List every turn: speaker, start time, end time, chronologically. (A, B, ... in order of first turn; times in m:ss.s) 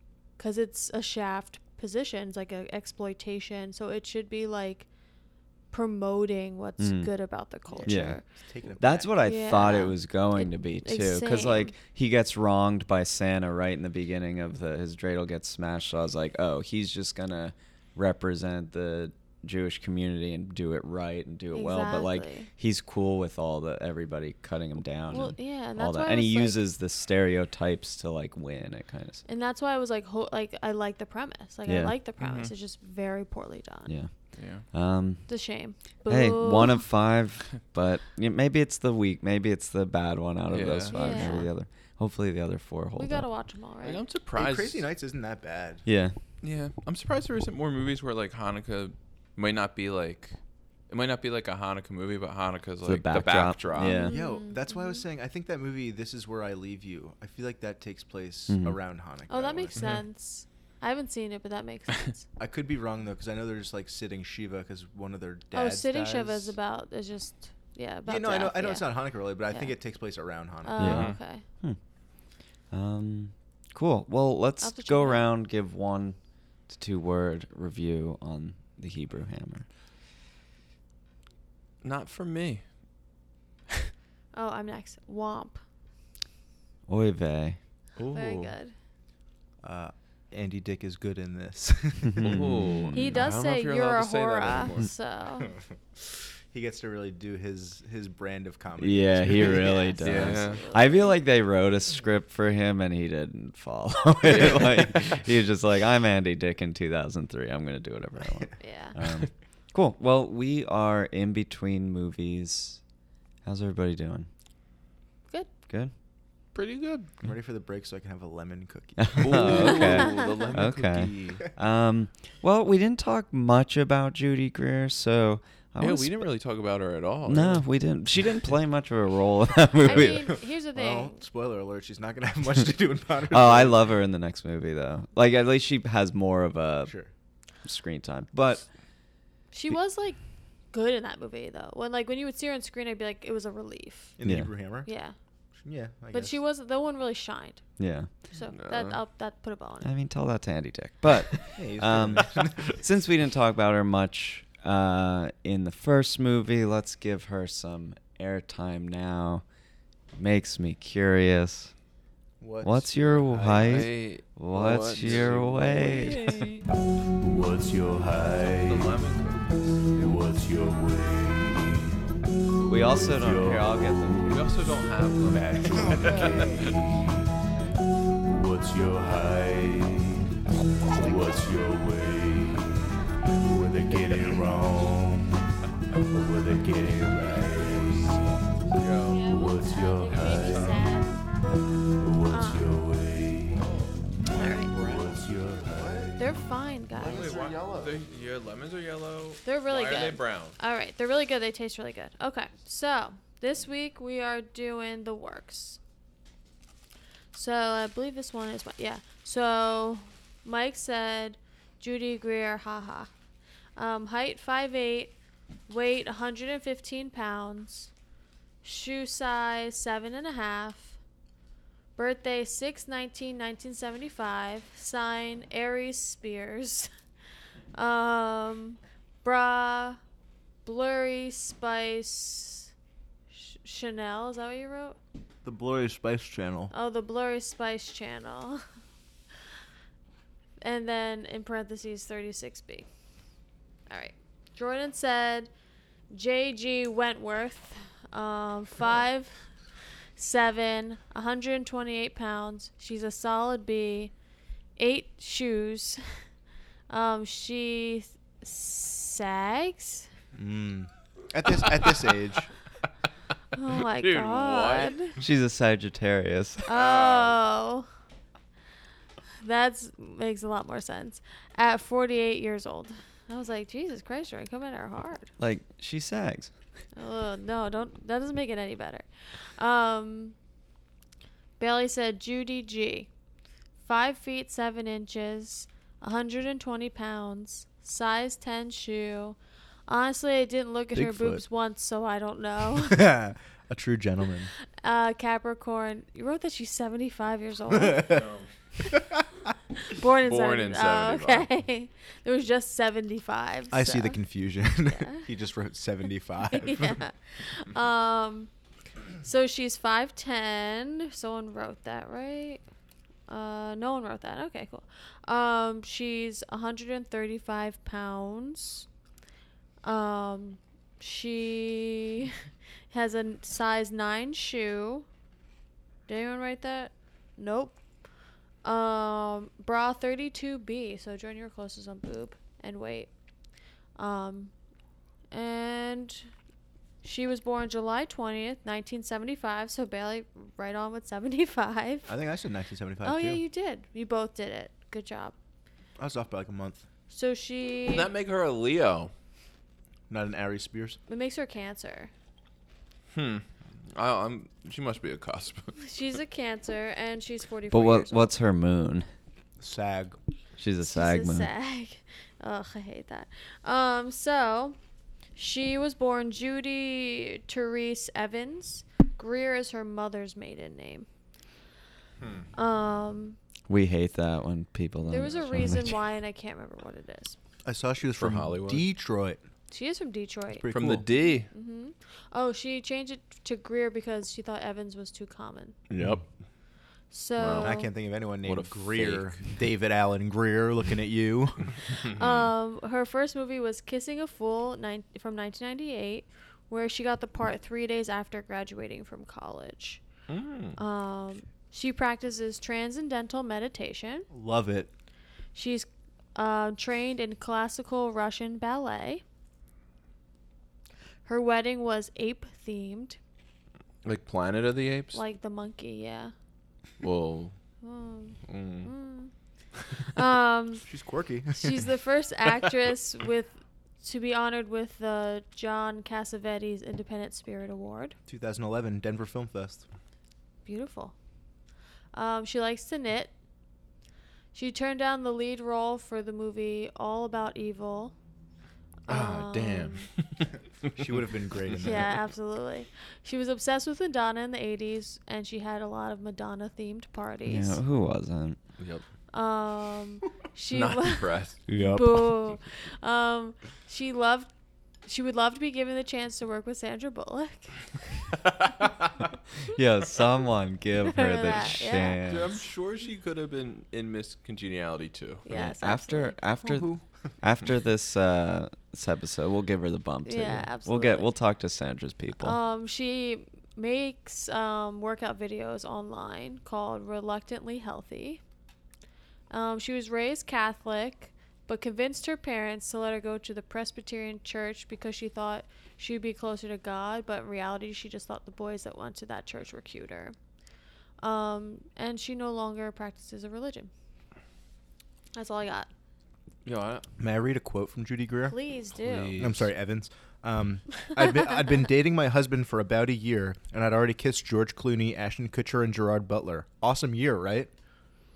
0:00.4-0:04.9 A
0:05.7-0:08.2 A
0:06.8-0:07.1 B
0:07.7-0:09.1 C
0:07.8-0:08.2 B
0:08.8-0:29.2 B
0:09.2-0:11.8 A
0:21.5-0:22.5 A
0:25.1-0:26.6 A
0:29.3-0:34.0 A
0:31.7-0:32.0 B
0:32.2-0:32.5 D
0:34.4-0:34.6 D
0:34.7-0:35.3 B
0:35.3-0:36.9 A
0:36.1-0:43.3 B
0:40.5-0:41.3 D
0:40.9-0:41.5 A
0:43.0-0:44.0 A
0:43.8-0:44.9 D
0:44.4-0:45.9 C
0:45.9-0:46.2 B
0:46.4-0:50.4 D
0:50.9-0:54.0 D
0:52.8-0:54.2 B
0:53.8-0:55.0 A
0:54.0-0:59.9 C
0:58.5-0:58.8 B
0:59.3-1:02.3 A
0:59.8-1:00.0 D
1:02.4-1:06.6 C
1:05.5-1:09.8 A
1:08.1-1:11.0 C
1:10.6-1:11.4 A
1:10.8-1:11.8 B
1:10.8-1:11.2 D
1:12.7-1:16.2 B
1:14.6-1:15.3 A
1:16.7-1:19.7 B
1:21.8-1:22.6 D
1:24.3-1:25.6 A
1:26.9-1:27.6 B
1:28.0-1:28.5 D
1:28.1-1:28.7 A
1:29.6-1:32.4 C
1:32.1-1:33.2 B
1:32.2-1:34.9 D
1:32.9-1:35.5 A
1:36.0-1:39.8 C
1:38.8-1:52.8 B
1:39.4-1:41.2 A
1:40.0-1:40.6 D
1:44.2-1:45.1 D
1:48.6-1:49.0 A
1:53.4-1:54.3 B
1:56.5-1:57.1 D
1:57.2-1:59.8 C
1:59.0-2:06.2 B
1:59.2-2:01.4 D
1:59.8-2:00.3 A
2:05.8-2:07.7 D
2:07.3-2:10.4 B
2:09.8-2:11.2 A
2:09.8-2:13.8 C
2:13.3-2:16.9 B
2:17.6-2:18.7 B
2:19.5-2:20.2 A
2:20.7-2:24.2 A
2:24.2-2:24.9 C
2:24.2-2:24.5 B
2:24.8-2:25.2 A
2:25.6-2:26.4 C
2:26.1-2:27.6 A
2:27.8-2:28.1 B
2:28.3-2:29.9 A
2:28.5-2:29.0 D
2:29.8-2:39.4 B
2:31.6-2:32.8 C
2:40.2-2:41.7 B
2:42.4-2:43.9 C
2:42.6-2:46.4 B
2:43.5-2:46.7 D
2:45.0-2:45.4 C
2:47.2-2:49.0 E
2:48.6-2:49.8 D
2:49.9-2:52.1 E
2:52.7-2:54.4 B
2:52.9-2:54.4 E
2:54.3-2:56.7 D
2:55.2-2:57.2 E
2:56.0-2:56.5 C
2:58.2-3:00.4 E
3:00.9-3:05.5 E
3:06.1-3:08.3 E
3:08.7-3:09.3 D
3:09.1-3:11.2 A
3:09.2-3:10.9 E
3:10.1-3:10.9 D
3:11.9-3:13.7 E
3:12.3-3:12.8 A
3:13.6-3:13.9 D
3:14.3-3:14.8 A
3:14.4-3:16.4 E
3:16.2-3:17.5 A
3:17.0-3:17.9 E
3:17.1-3:20.6 D
3:19.4-3:25.8 A
3:27.3-3:33.1 A
3:33.8-3:35.1 A
3:35.7-3:37.9 A
3:38.6-3:41.0 A
3:42.0-3:46.9 A
3:47.8-3:50.0 A
3:50.6-3:52.7 A
3:53.3-3:55.0 A
3:55.4-3:56.7 C
3:56.7-3:58.6 A
4:00.6-4:02.9 A
4:03.9-4:05.5 A
4:06.1-4:09.4 A
4:10.2-4:14.1 A
4:14.8-4:16.0 A
4:16.9-4:20.1 A
4:20.3-4:22.5 C
4:23.5-4:25.2 A
4:23.9-4:25.0 D
4:25.2-4:26.6 B
4:26.7-4:27.9 A
4:26.7-4:27.4 D
4:29.4-4:35.3 A
4:35.4-4:36.5 B
4:37.0-4:40.4 A
4:41.6-4:43.1 A
4:43.8-4:53.1 A
4:50.9-4:51.4 C
4:52.7-4:54.5 C
4:54.8-4:58.2 A
4:57.7-4:58.3 C
4:58.1-4:58.5 D
4:58.9-4:59.2 C
4:59.9-5:04.2 A
5:00.2-5:01.5 D
5:03.7-5:07.0 C
5:04.9-5:05.3 A
5:06.5-5:08.5 A
5:09.2-5:12.6 A
5:13.3-5:18.9 A
5:19.8-5:22.4 A
5:22.9-5:25.1 A
5:26.1-5:27.8 A
5:28.6-5:33.1 A
5:34.0-5:34.5 A
5:35.3-5:36.3 A
5:37.0-5:42.1 A
5:42.1-5:43.4 C
5:43.0-5:45.4 A
5:46.0-5:46.8 C
5:47.1-5:48.1 A
5:47.9-5:49.1 D
5:50.1-5:51.0 C
5:51.1-5:52.1 A
5:53.1-5:55.8 D
5:55.8-5:58.3 A
5:57.7-5:59.1 B
5:59.6-6:00.2 C
6:00.6-6:01.5 B
6:00.8-6:04.8 A
6:05.4-6:11.1 A
6:12.2-6:12.5 D
6:12.5-6:13.4 A
6:13.7-6:16.0 B
6:15.1-6:17.4 A
6:17.6-6:19.4 C
6:18.1-6:18.9 D
6:19.7-6:25.8 A
6:20.5-6:21.1 C
6:20.7-6:21.5 D
6:25.9-6:26.3 D
6:27.1-6:27.9 A
6:27.4-6:27.8 D
6:27.6-6:31.8 C
6:28.4-6:29.6 D
6:32.0-6:40.0 A
6:40.3-6:40.8 D
6:40.8-6:44.3 A
6:44.3-6:44.9 C
6:45.6-6:49.2 A
6:51.2-6:53.2 A
6:54.0-6:55.2 D
6:55.1-6:56.3 A
6:57.0-6:57.6 D
6:57.8-6:59.3 A
6:58.5-6:58.9 D
7:00.1-7:00.8 A
7:00.9-7:01.9 C
7:01.6-7:08.2 A
7:08.3-7:09.9 C
7:10.6-7:11.2 A
7:12.1-7:13.3 A
7:14.5-7:18.1 A
7:19.1-7:20.1 A
7:19.1-7:21.2 D
7:20.9-7:22.2 C
7:21.8-7:27.8 A
7:27.5-7:28.6 B
7:28.8-7:29.0 D
7:29.3-7:31.3 A
7:30.7-7:31.6 D
7:31.7-7:32.3 B
7:31.9-7:34.5 A
7:35.1-7:38.0 A
7:39.7-7:42.6 B
7:41.0-7:42.4 A
7:42.3-7:45.4 D
7:45.4-7:46.4 A
7:45.5-7:52.6 B
7:46.6-7:47.0 C
7:50.2-7:51.3 A
7:52.4-7:58.4 A
7:59.5-8:10.4 A
8:11.2-8:13.9 A
8:15.4-8:15.9 A
8:16.6-8:17.1 D
8:17.2-8:18.6 C
8:18.5-8:19.5 A
8:19.0-8:19.7 D
8:19.4-8:27.7 C